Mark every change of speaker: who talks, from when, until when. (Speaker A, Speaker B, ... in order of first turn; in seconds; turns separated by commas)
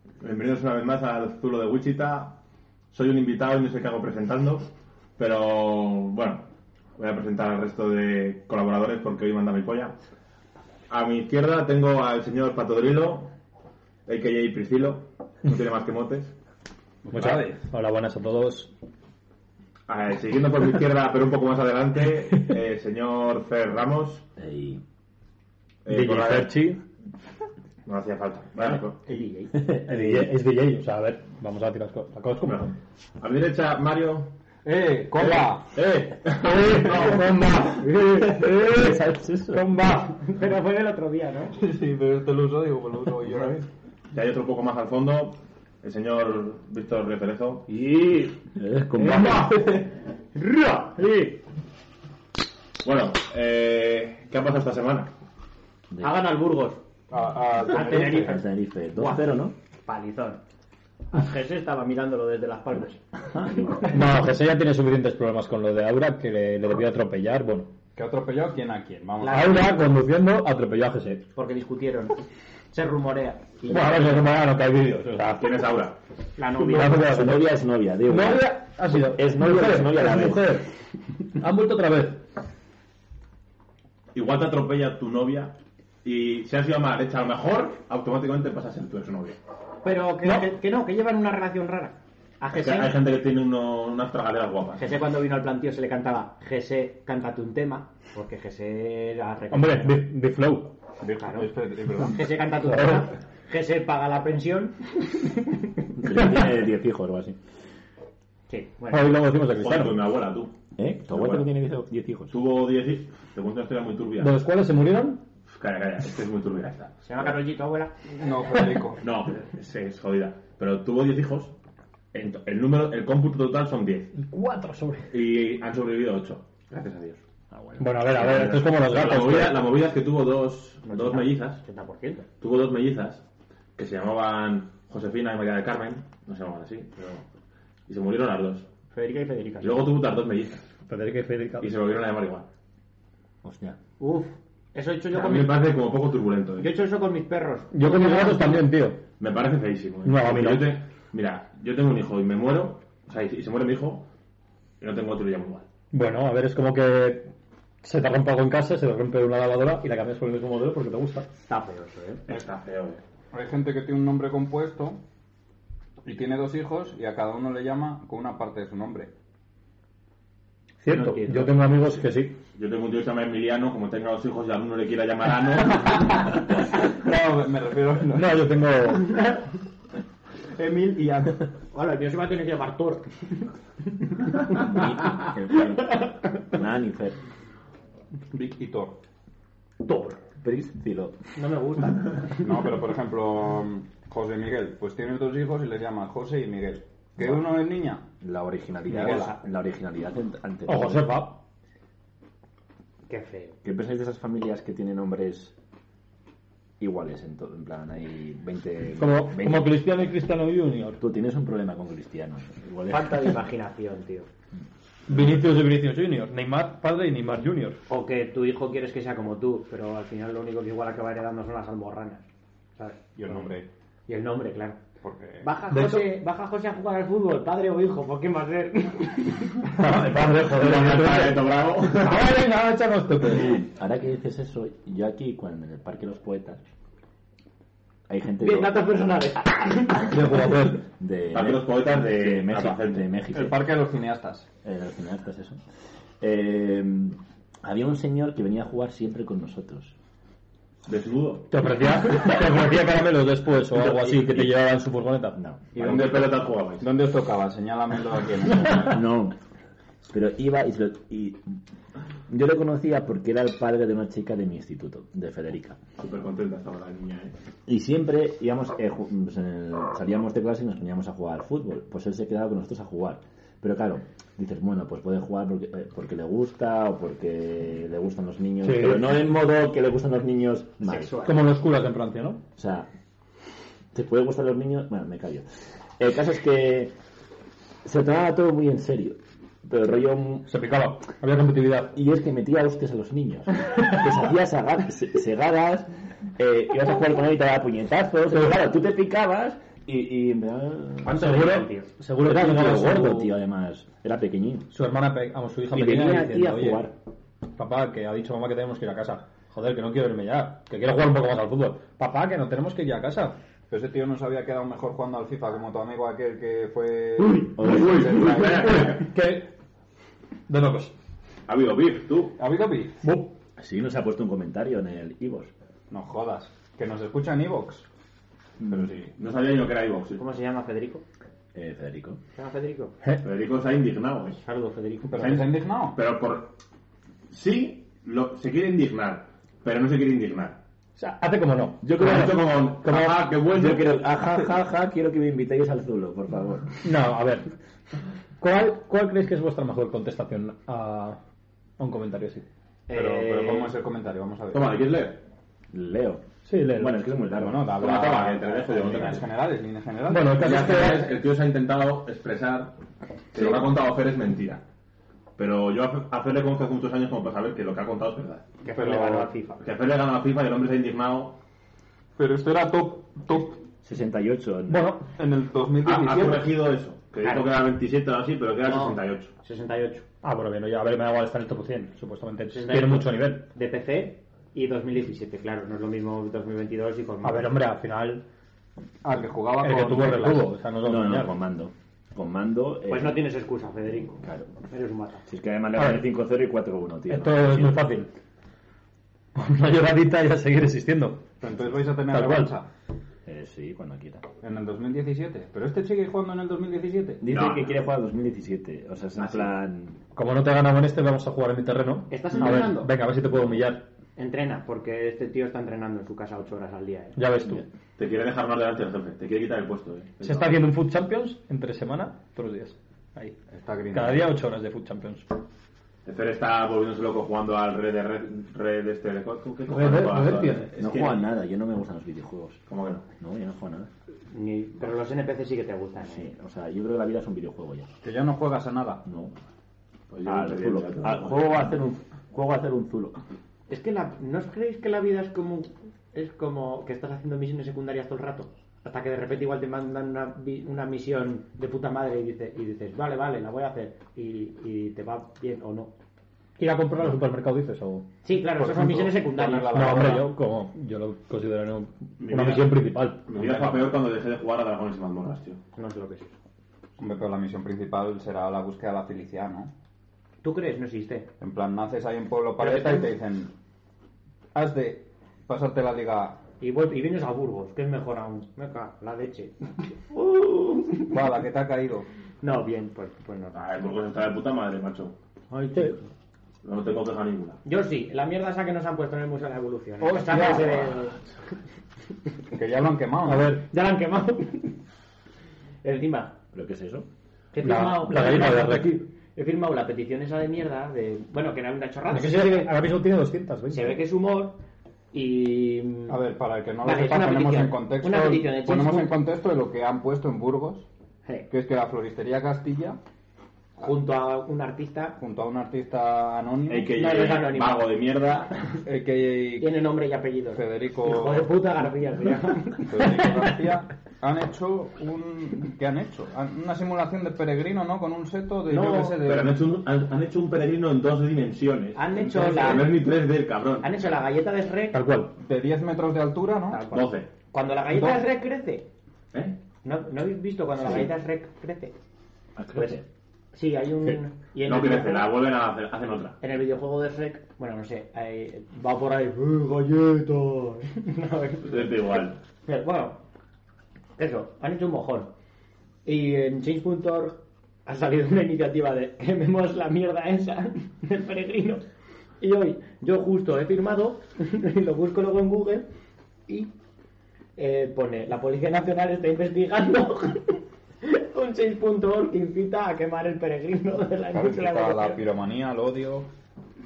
Speaker A: 0.2-2.4, Speaker A: 2.9-9.9, Speaker A: 10.9-13.3, Speaker A: 14.1-16.3, Speaker B: 17.1-17.6, Speaker C: 17.1-18.7, Speaker A: 19.9-24.2, Speaker D: 24.4-24.8, Speaker A: 25.9-26.5, Speaker C: 25.9-26.8, Speaker A: 27.9-29.0, Speaker E: 29.0-29.5, Speaker D: 29.5-30.3, Speaker C: 29.8-32.7, Speaker A: 32.4-34.3, Speaker B: 34.6-35.7, Speaker C: 35.2-35.5, Speaker A: 35.2-37.5, Speaker C: 36.4-40.2, Speaker B: 36.9-37.3, Speaker D: 38.2-39.7, Speaker E: 39.8-41.5, Speaker B: 41.5-43.7, Speaker A: 44.1-47.7, Speaker D: 47.7-49.8, Speaker C: 49.0-49.8, Speaker E: 50.4-51.4, Speaker A: 52.8-55.1, Speaker D: 55.9-56.2, Speaker E: 56.0-56.8, Speaker B: 57.1-58.4, Speaker E: 57.6-59.3, Speaker D: 57.7-59.5, Speaker E: 59.9-60.4, Speaker E: 61.1-63.9, Speaker D: 63.3-63.8, Speaker C: 63.9-67.7, Speaker B: 68.0-69.8, Speaker E: 69.2-69.7, Speaker C: 69.2-71.2, Speaker E: 71.4-74.2, Speaker C: 73.7-75.6, Speaker A: 75.4-76.0, Speaker E: 76.4-77.3, Speaker C: 76.6-77.5, Speaker D: 76.8-80.6, Speaker C: 78.1-80.7, Speaker C: 81.3-82.2, Speaker A: 84.1-89.4, Speaker E: 89.8-93.0, Speaker A: 92.5-94.8, Speaker E: 94.8-100.1, Speaker C: 99.5-100.7, Speaker B: 101.0-102.4, Speaker E: 101.2-105.7, Speaker C: 102.7-103.1, Speaker D: 106.0-107.4, Speaker E: 108.5-109.2, Speaker C: 108.9-110.1, Speaker A: 109.5-110.5, Speaker D: 110.8-112.3, Speaker A: 111.1-111.5, Speaker A: 112.3-114.4, Speaker C: 114.2-115.2, Speaker A: 115.5-117.3, Speaker E: 117.0-118.0, Speaker B: 118.1-119.0, Speaker A: 119.0-121.5, Speaker A: 122.1-124.1, Speaker C: 124.2-125.1, Speaker A: 125.1-127.2, Speaker D: 127.5-128.1, Speaker C: 127.8-129.7, Speaker A: 128.1-131.6, Speaker E: 130.9-132.3, Speaker A: 132.4-133.2, Speaker A: 133.8-137.2, Speaker A: 137.9-138.7, Speaker E: 138.9-139.9, Speaker A: 139.6-140.6, Speaker C: 140.9-141.7, Speaker A: 141.6-142.5, Speaker D: 143.4-143.8, Speaker E: 144.0-145.8, Speaker A: 145.1-146.7, Speaker E: 146.6-148.7, Speaker C: 147.7-149.0, Speaker A: 149.2-154.1, Speaker C: 150.0-150.7, Speaker A: 154.8-155.7, Speaker C: 155.9-157.3, Speaker C: 157.8-161.3, Speaker E: 161.5-162.2, Speaker A: 162.3-163.0, Speaker B: 163.3-165.0, Speaker B: 166.0-169.1, Speaker C: 170.8-172.4, Speaker A: 170.9-171.3, Speaker E: 171.0-171.5, Speaker A: 172.5-176.1, Speaker B: 176.1-178.5, Speaker C: 178.1-179.2, Speaker B: 180.6-181.5, Speaker E: 181.7-183.1, Speaker E: 184.2-186.5, Speaker D: 184.5-187.2, Speaker B: 188.3-189.0, Speaker E: 189.8-190.2, Speaker D: 190.4-191.2, Speaker E: 191.4-192.6, Speaker B: 192.3-198.0, Speaker D: 197.2-197.6, Speaker D: 198.2-201.2, Speaker E: 198.9-199.4, Speaker B: 199.0-199.3, Speaker C: 200.7-201.4, Speaker E: 203.1-203.6, Speaker D: 203.6-205.5, Speaker D: 206.8-209.8, Speaker C: 209.0-211.0, Speaker D: 211.0-213.3, Speaker E: 212.9-214.3, Speaker C: 215.1-217.8, Speaker E: 217.9-222.2, Speaker E: 222.8-223.5, Speaker B: 223.2-223.7, Speaker E: 224.1-224.8, Speaker B: 225.0-225.5, Speaker E: 225.4-229.7, Speaker C: 225.7-226.1, Speaker C: 229.7-233.7, Speaker A: 230.3-232.3, Speaker D: 233.4-236.6, Speaker D: 238.1-238.8, Speaker E: 238.4-240.4, Speaker C: 240.1-240.8, Speaker D: 240.2-243.6, Speaker A: 241.3-243.1, Speaker B: 243.3-244.5, Speaker D: 244.6-245.6, Speaker D: 246.2-249.9, Speaker A: 250.9-251.5, Speaker C: 251.5-255.4, Speaker D: 253.7-254.6, Speaker D: 255.3-255.6, Speaker A: 255.8-256.9, Speaker B: 255.8-259.0, Speaker C: 258.6-258.9, Speaker D: 258.8-259.4, Speaker D: 260.1-261.4, Speaker D: 262.3-265.8, Speaker A: 266.0-267.3, Speaker D: 267.7-281.2, Speaker C: 278.6-279.1, Speaker E: 280.8-281.5, Speaker C: 281.2-282.4, Speaker D: 282.6-282.9, Speaker D: 283.9-286.9, Speaker D: 287.9-290.5, Speaker C: 290.5-291.9, Speaker D: 291.9-301.4, Speaker E: 301.0-301.9, Speaker C: 301.1-303.3, Speaker D: 302.2-304.7, Speaker C: 304.7-306.9, Speaker D: 305.7-306.9, Speaker C: 307.6-313.4, Speaker B: 313.7-318.9, Speaker D: 317.5-318.8, Speaker A: 317.6-319.1, Speaker C: 318.4-319.5, Speaker C: 320.5-320.9, Speaker A: 321.5-322.4, Speaker B: 322.4-323.0, Speaker C: 323.0-323.3, Speaker D: 323.6-325.5, Speaker B: 325.9-327.9, Speaker B: 328.7-329.1, Speaker A: 328.7-330.2, Speaker E: 330.2-331.0, Speaker D: 331.6-332.2, Speaker E: 332.3-332.9, Speaker A: 333.2-334.4, Speaker E: 334.4-335.4, Speaker B: 335.1-336.0, Speaker A: 335.1-336.6, Speaker A: 337.3-340.6, Speaker C: 341.0-343.4, Speaker D: 341.8-342.5, Speaker A: 341.9-343.9, Speaker D: 343.5-346.9, Speaker C: 346.8-347.5, Speaker C: 348.4-351.2, Speaker C: 351.8-352.4, Speaker E: 352.9-353.8, Speaker B: 352.9-354.7, Speaker A: 354.5-355.2, Speaker D: 355.7-357.8, Speaker C: 356.4-357.3, Speaker B: 357.4-361.1, Speaker A: 357.7-359.3, Speaker C: 360.1-361.1, Speaker A: 360.3-362.8, Speaker A: 363.3-364.6, Speaker B: 363.4-363.7, Speaker A: 365.4-368.4, Speaker E: 368.6-369.6, Speaker B: 368.7-369.3, Speaker A: 369.6-371.4, Speaker B: 372.2-373.6, Speaker D: 373.8-374.9, Speaker C: 374.7-375.1, Speaker B: 375.1-376.6, Speaker A: 375.8-379.3, Speaker E: 377.2-377.5, Speaker E: 378.6-380.1, Speaker C: 380.2-383.5, Speaker E: 382.5-387.5, Speaker C: 387.2-388.2, Speaker B: 389.0-390.6, Speaker C: 389.6-391.3, Speaker D: 390.8-393.2, Speaker E: 392.9-395.2, Speaker D: 394.1-394.5, Speaker D: 395.3-397.8, Speaker C: 395.8-396.1, Speaker C: 397.1-398.1, Speaker C: 399.4-401.4, Speaker B: 401.4-402.7, Speaker C: 402.0-402.6, Speaker D: 403.3-404.3, Speaker B: 404.4-407.2, Speaker D: 407.2-410.0, Speaker A: 407.3-407.8, Speaker C: 410.1-413.9, Speaker E: 412.1-412.9, Speaker E: 414.2-417.2, Speaker C: 417.1-417.6, Speaker A: 418.0-420.6, Speaker C: 420.2-423.4, Speaker B: 423.5-424.4, Speaker C: 423.9-425.3, Speaker A: 426.1-431.3, Speaker C: 429.7-431.0, Speaker D: 430.8-432.6, Speaker A: 432.7-433.1, Speaker D: 433.2-433.9, Speaker E: 434.3-436.3, Speaker D: 436.0-437.9, Speaker B: 438.0-439.0, Speaker D: 439.1-439.3, Speaker A: 440.1-441.7, Speaker D: 440.2-443.2, Speaker E: 443.7-455.9, Speaker C: 456.6-458.1, Speaker E: 458.2-460.1, Speaker B: 458.6-460.4, Speaker C: 459.7-463.8, Speaker A: 462.2-465.6, Speaker E: 465.8-466.3, Speaker B: 467.0-469.7, Speaker E: 470.4-471.3, Speaker B: 471.4-473.5, Speaker E: 472.6-473.1, Speaker B: 474.5-476.4, Speaker E: 476.6-481.4, Speaker B: 481.1-482.1, Speaker E: 482.4-483.6, Speaker A: 483.5-485.1, Speaker E: 485.5-486.0, Speaker A: 486.6-487.6, Speaker E: 487.6-491.3, Speaker B: 490.0-490.9, Speaker B: 492.5-493.6, Speaker C: 493.2-493.7, Speaker E: 493.7-494.8, Speaker E: 495.8-496.4, Speaker D: 496.5-497.1, Speaker E: 497.5-502.7, Speaker C: 497.6-499.1, Speaker C: 502.1-504.0, Speaker E: 503.7-504.6, Speaker E: 505.1-506.2, Speaker B: 506.1-510.9, Speaker E: 506.8-509.2, Speaker B: 511.5-513.0, Speaker E: 513.8-515.2, Speaker B: 515.2-516.9, Speaker A: 516.7-518.5, Speaker E: 516.9-518.0, Speaker B: 518.8-519.8, Speaker E: 519.6-523.6, Speaker B: 520.5-521.6, Speaker B: 522.8-529.5, Speaker E: 528.7-529.2, Speaker A: 529.2-533.9, Speaker E: 532.0-533.0, Speaker B: 532.2-532.8, Speaker E: 533.8-535.0, Speaker C: 534.9-535.3, Speaker B: 535.4-536.8, Speaker E: 536.7-538.9, Speaker A: 536.9-537.3, Speaker A: 539.3-539.6, Speaker E: 539.8-542.0, Speaker D: 542.6-543.0, Speaker E: 542.7-543.0, Speaker E: 543.5-545.3, Speaker A: 544.6-546.4, Speaker E: 546.4-553.2, Speaker A: 551.6-552.4, Speaker E: 554.2-555.3, Speaker E: 556.0-561.9, Speaker E: 562.4-565.9, Speaker E: 566.5-566.7, Speaker E: 567.6-575.2, Speaker B: 574.3-576.3